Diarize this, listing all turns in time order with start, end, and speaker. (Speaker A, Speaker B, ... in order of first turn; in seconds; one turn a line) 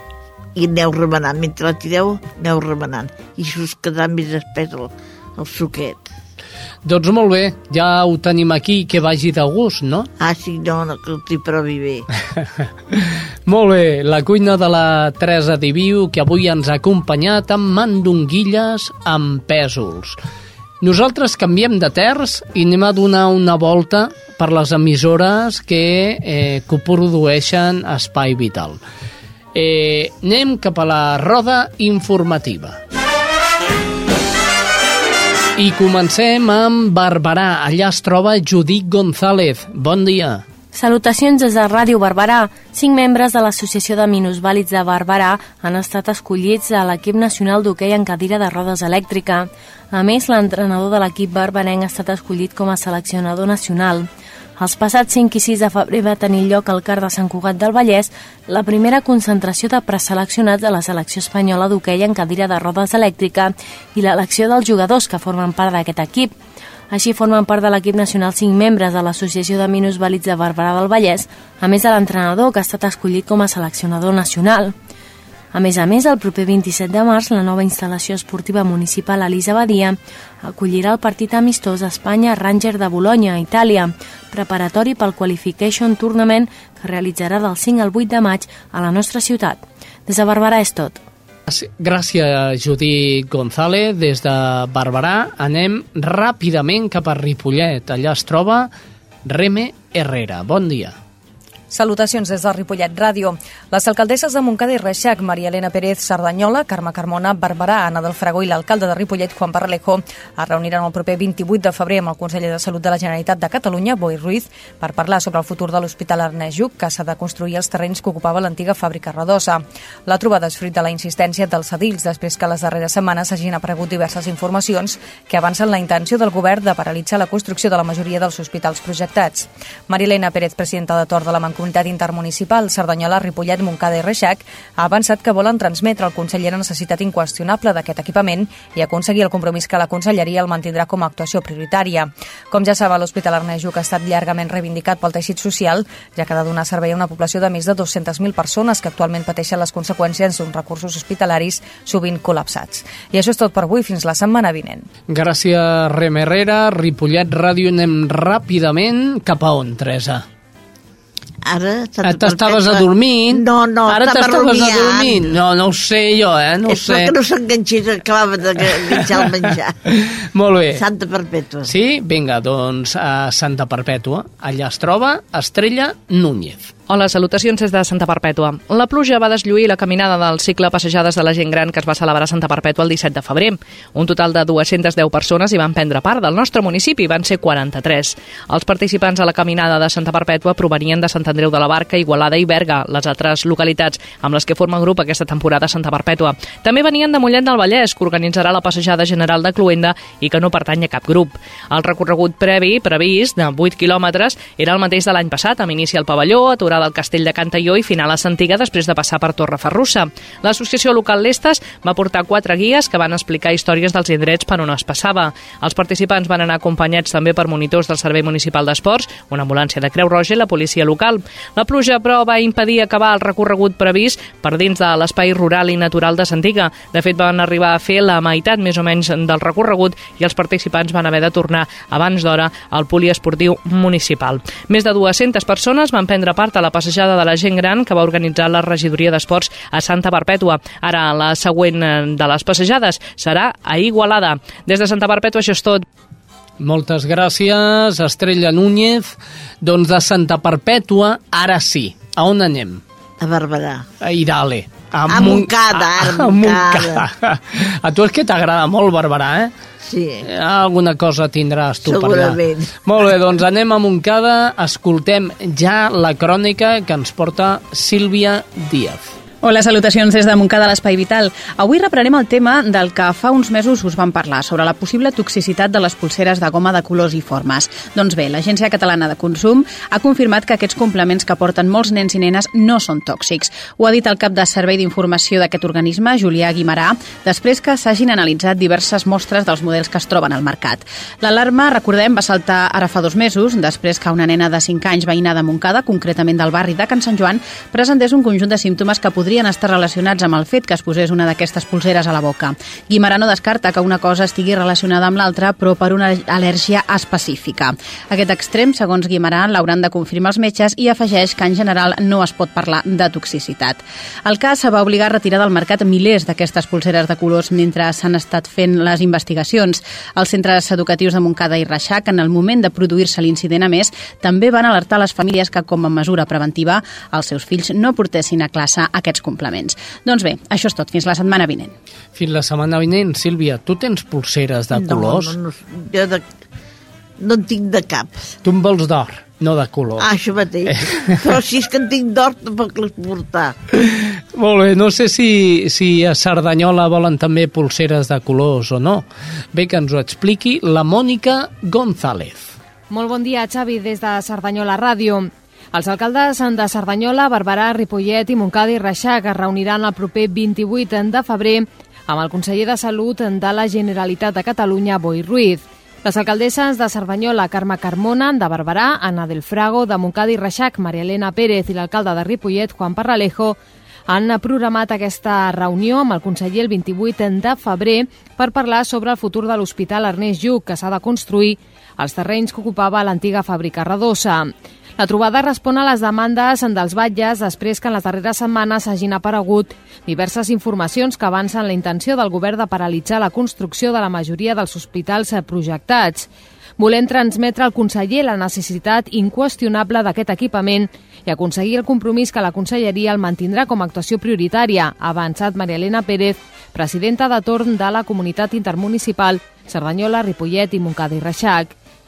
Speaker A: 0.6-6.1
Speaker B: 6.8-10.1
Speaker A: 10.2-12.1
Speaker B: 12.4-20.2
Speaker B: 20.8-28.8
Speaker B: 29.5-32.8
Speaker B: 35.6-40.4
Speaker C: 40.7-66.3
Speaker C: 66.9-74.7
Speaker C: 75.5-91.0
Speaker B: 91.5-98.7
Speaker B: 99.2-101.0
Speaker D: 101.7-154.8
Speaker B: 155.1-160.2
Speaker A: 161.4-165.3
Speaker B: 162.0-167.1
Speaker A: 166.6-169.8
Speaker B: 168.7-169.3
Speaker B: 169.9-170.8
Speaker A: 170.7-171.7
Speaker B: 171.7-176.7
Speaker E: 176.9-245.8
Speaker B: 246.6-252.8
Speaker A: 253.2-253.8
Speaker B: 254.0-259.5
Speaker A: 255.1-257.0
Speaker A: 259.8-260.3
Speaker B: 260.2-269.1
Speaker A: 261.8-262.7
Speaker F: 269.4-331.7
Speaker B: 332.1-335.4
Speaker A: 334.7-336.2
Speaker A: 337.2-338.2
Speaker B: 338.4-340.1
Speaker A: 340.0-343.5
Speaker B: 340.7-341.2
Speaker B: 343.8-352.6
Speaker G: 352.9-411.7